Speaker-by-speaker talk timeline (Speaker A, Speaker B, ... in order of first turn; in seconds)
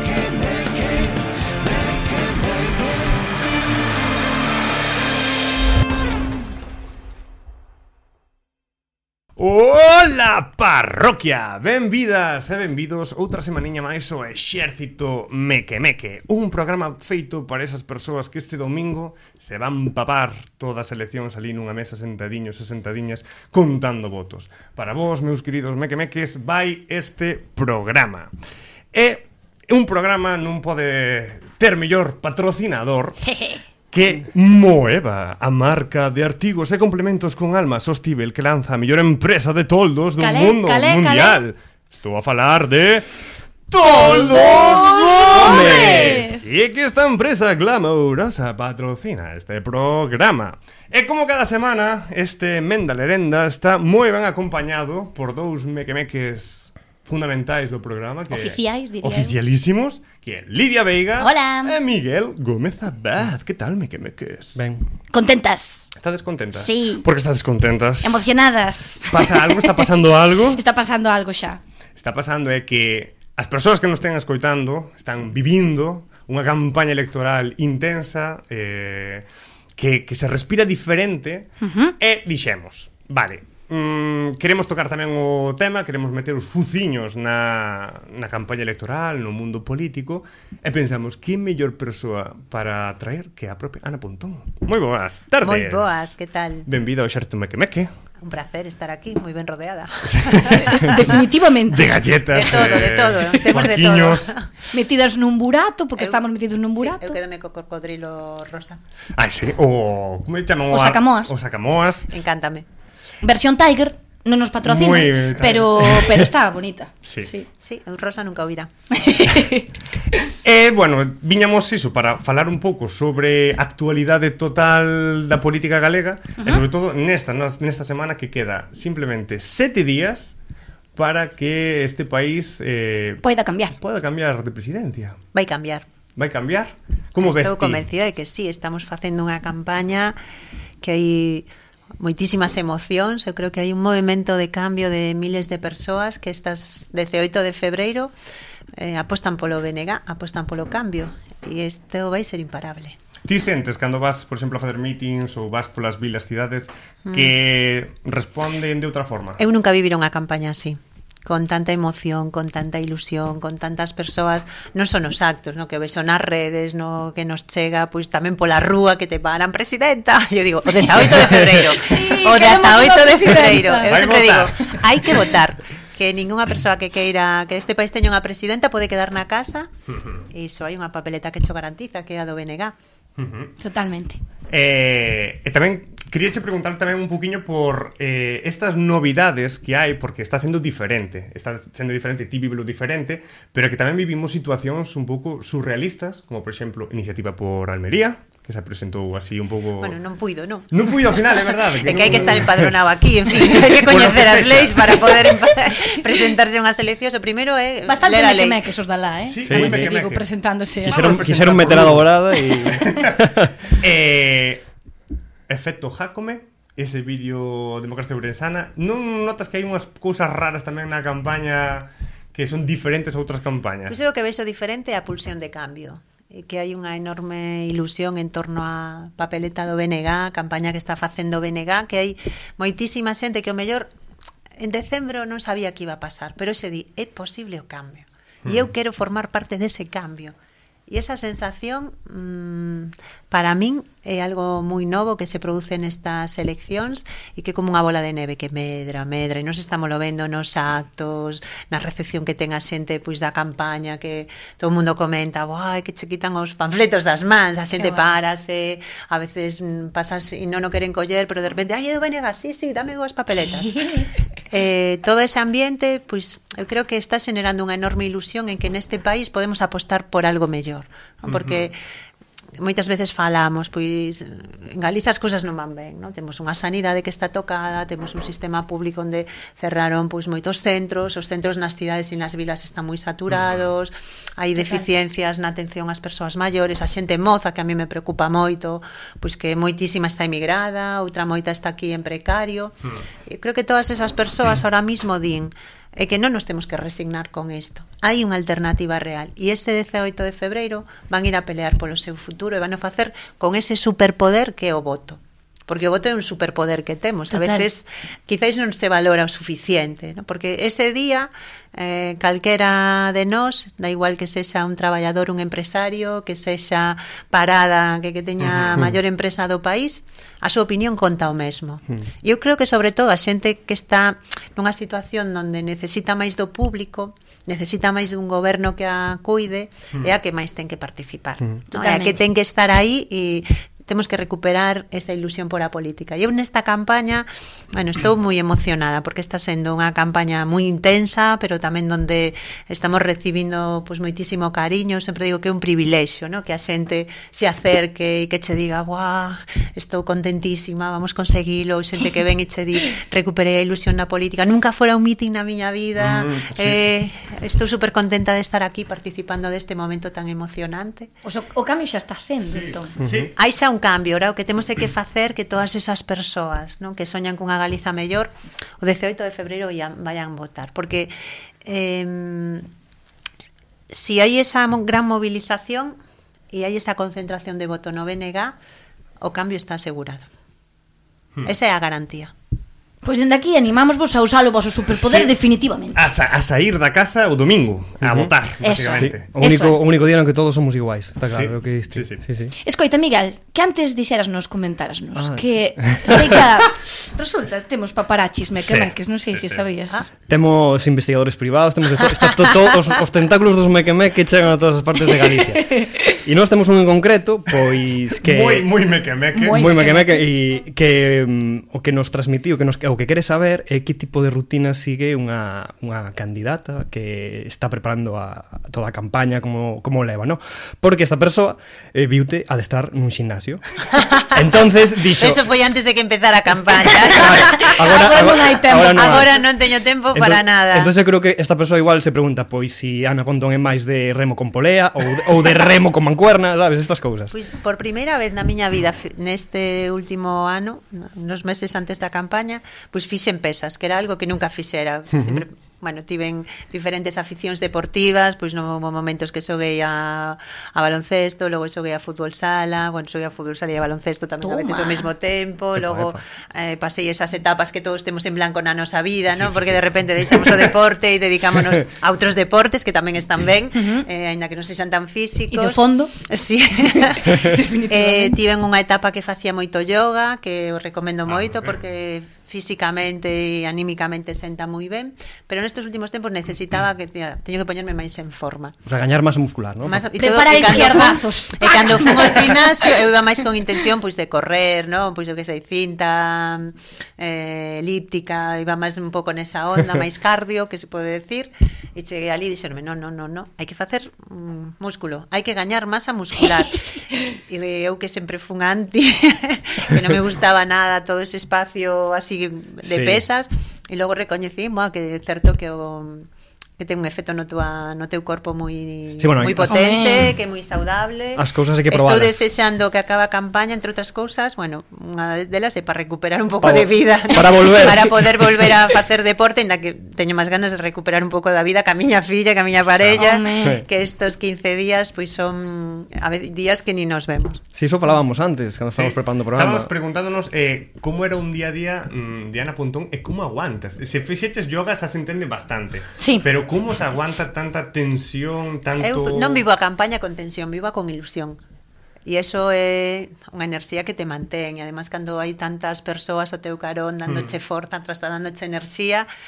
Speaker A: 9.4-28.3, 28.9-33.2, 33.9-43.1, 43.7-64.6, 66.0-68.2, 69.1-70.6, 72.0-96.1, 96.7-97.9, 100.1-100.6, 101.7-104.3, 109.2-112.1, 114.6-116.1, 117.0-117.3, 120.4-130.3, 130.9-135.2, 136.2-137.8, 153.2-159.4, 173.9-174.8, 179.9-180.2, 183.2-183.5, 184.5-200.0, 200.7-202.7, 203.3-205.4, 209.3-210.2, 210.9-213.2, 213.8-214.6, 215.5-224.0, 271.3-271.7, 283.3-283.7, 318.4-318.9, 356.0-356.8, 362.4-363.3, 384.9-385.3, 385.9-389.2, 391.3-392.2, 398.6-399.6, 408.2-409.7, 459.4-460.5, 471.2-471.8, 528.9-539.6
Speaker B: 33.2-33.6, 40.2-41.4, 43.8-46.4, 58.3-59.4, 61.2-61.7, 65.1-65.9, 66.5-67.0, 68.0-69.5, 70.5-71.6, 81.6-81.9, 100.7-101.9, 104.7-107.2, 110.7-111.3, 113.2-117.5, 119.0-119.7, 133.2-133.8, 171.7-173.9, 183.6-184.2, 207.8-211.1, 257.8-258.1, 284.6-284.9, 307.3-307.7, 331.7-332.2, 361.2-362.9, 383.0-386.0, 388.6-389.8, 392.6-400.1, 405.7-406.1, 409.3-410.2, 427.6-429.3, 454.4-455.1, 463.7-464.0, 465.5-466.1, 466.9-468.4, 480.2-482.4, 509.6-510.3, 523.2-523.8, 536.2-536.4
Speaker C: 45.3-46.2, 64.5-64.8, 209.4-209.9, 210.9-213.7, 388.0-388.3, 388.9-392.5, 395.1-396.4, 400.3-408.7, 409.4-423.6, 424.3-425.4, 427.1-429.4, 430.1-437.3, 445.1-445.4, 455.8-456.2, 478.9-480.0, 502.8-503.2, 509.2-509.9, 511.4-512.4, 516.6-518.7, 527.7-529.9
Speaker D: 95.4-96.7, 98.2-101.2, 102.3-104.5, 106.0-106.2, 106.8-108.8, 112.1-112.7, 117.6-118.7, 135.3-135.9, 137.2-140.2, 140.8-141.5, 142.0-148.1, 148.8-153.0, 157.1-157.3, 159.4-179.7, 180.3-182.8, 199.8-200.7, 201.7-208.6, 223.9-233.9, 234.6-240.3, 240.9-271.8, 272.6-361.1, 363.4-372.7, 373.9-375.9, 376.5-378.5, 379.2-380.3, 381.4-382.3, 424.0-424.4, 425.1-427.9, 428.9-430.9, 437.3-478.8, 479.8-506.2, 506.8-527.6, 539.0-541.6, 542.2-549.3